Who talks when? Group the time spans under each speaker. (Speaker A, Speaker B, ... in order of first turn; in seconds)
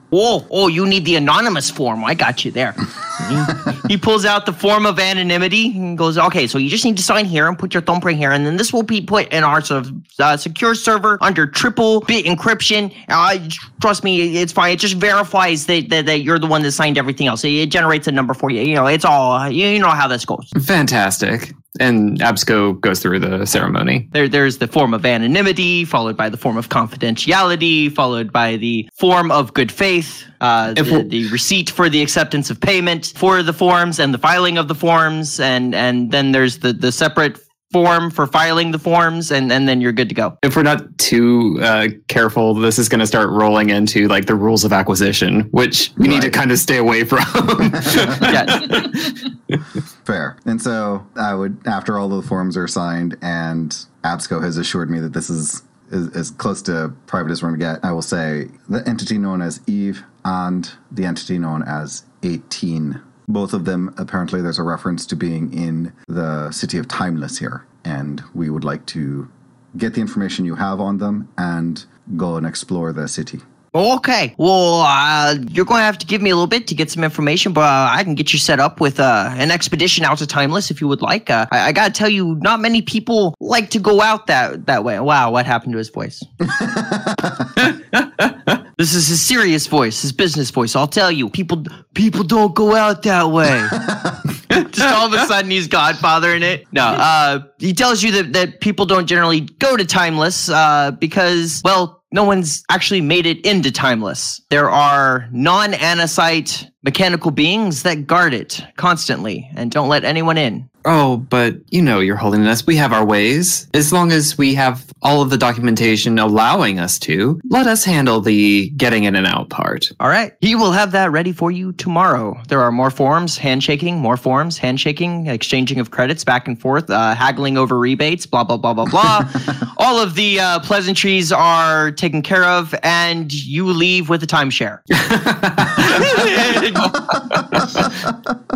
Speaker A: 0.1-20.5, 24.1-40.4, 48.3-48.7, 73.7-86.3, 88.8-93.8, 94.5-110.7, 120.0-134.8, 135.8-137.0
Speaker B: 20.6-24.1, 30.8-31.1, 40.4-49.5, 87.7-88.3, 110.8-119.9, 134.9-137.8
Speaker C: 46.0-46.4, 47.8-48.3, 50.0-73.4, 86.4-87.6, 93.7-94.2, 137.1-138.4